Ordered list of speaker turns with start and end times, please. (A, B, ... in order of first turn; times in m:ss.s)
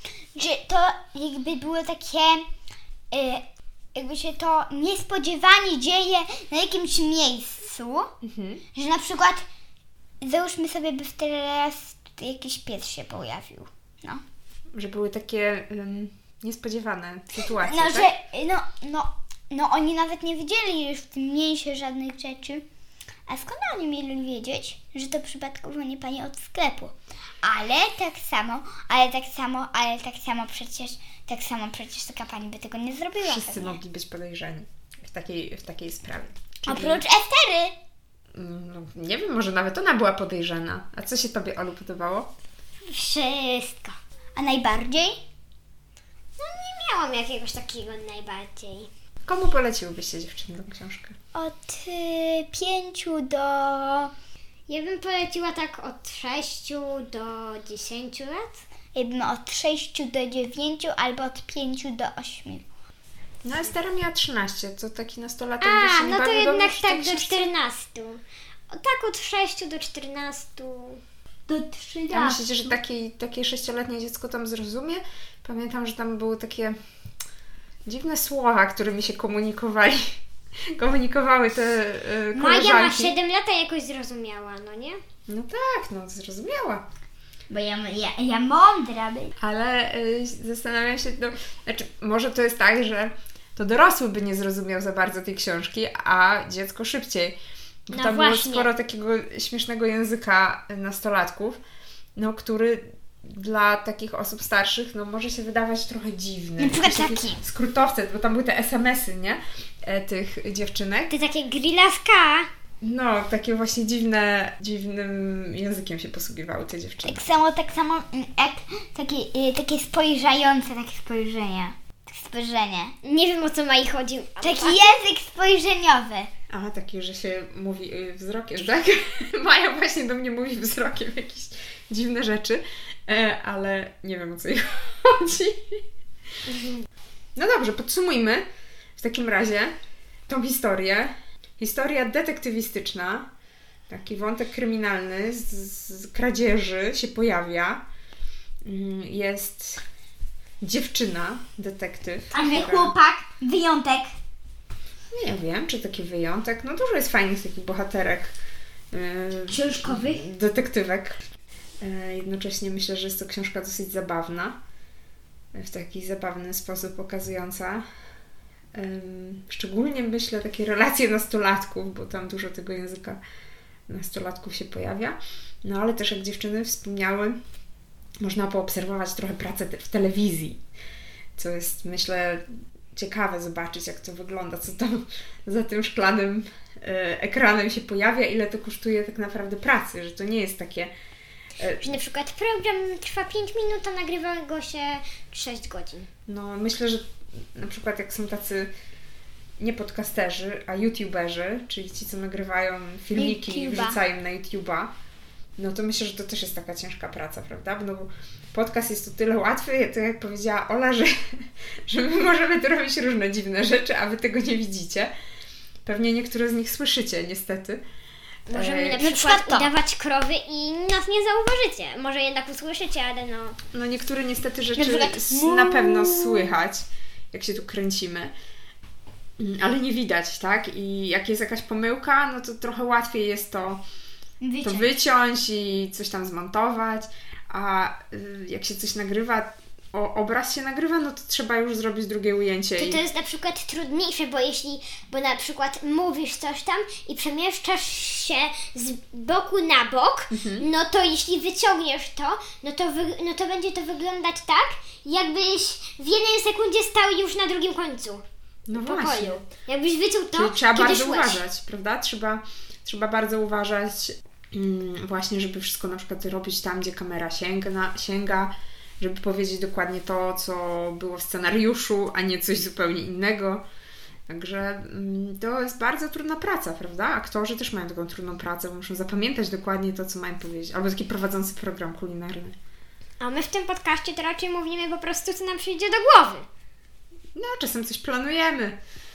0:00.4-0:02.5 A
0:03.1-0:08.1 A
0:08.2-0:08.6 B
0:08.8-0:09.4 A
0:10.2-0:14.2 A
0:14.7-0:18.1 B
0:17.6-0:22.6 A
0:23.3-0:33.8 A
0:33.2-0:37.0 B
0:36.7-0:37.8 A
0:38.4-0:42.3 B
0:42.9-0:44.0 C
0:44.4-0:45.2 A
0:46.4-0:48.9 C
0:49.3-0:51.2 B
0:51.4-0:54.1 A
0:54.7-0:58.6 C
0:59.0-1:02.6 A
1:03.4-1:07.5 B
1:05.6-1:11.0 C
1:11.5-1:12.8 A
1:12.1-1:16.8 B
1:17.9-1:20.2 B
1:20.8-1:23.2 B
1:22.3-1:25.0 C
1:25.3-1:26.8 B
1:27.5-1:29.3 A
1:29.4-1:37.4 B
1:37.9-1:41.6 B
1:37.9-1:38.7 C
1:42.2-1:51.1 B
1:46.6-1:47.4 A
1:51.1-1:52.5 C
1:52.8-1:57.2 B
1:57.0-2:02.9 A
2:03.0-2:04.8 C
2:04.4-2:06.3 A
2:06.5-2:15.8 B
2:16.5-2:16.8 C
2:17.4-2:18.4 B
2:19.0-2:19.7 B
2:20.3-2:23.3 B
2:23.9-2:27.8 B
2:28.6-2:29.8 B
2:30.6-2:32.9 B
2:32.3-2:34.1 A
2:35.1-2:38.3 B
2:38.9-2:41.2 B
2:39.5-2:40.2 A
2:41.8-2:44.6 B
2:45.6-2:47.8 B
2:48.7-2:53.2 B
2:53.9-2:57.4 B
2:58.2-3:00.6 B
3:01.4-3:10.9 B
3:11.6-3:11.8 B
3:11.8-3:16.1 C
3:16.3-3:18.7 B
3:19.6-3:24.9 B
3:23.1-3:24.0 A
3:25.6-3:31.2 B
3:31.9-3:35.1 B
3:35.9-3:37.8 B
3:38.5-3:43.6 C
3:38.5-3:39.0 B
3:39.0-3:39.7 A
3:43.7-3:48.3 B
3:44.8-3:46.6 A
3:49.4-3:53.8 B
3:54.4-3:54.9 A
3:54.6-4:03.0 B
4:02.8-4:21.4 C
4:10.3-4:10.7 B
4:18.7-4:19.4 B
4:20.3-4:33.6 B
4:34.3-4:42.6 B
4:43.2-4:46.5 C
4:47.4-4:48.8 B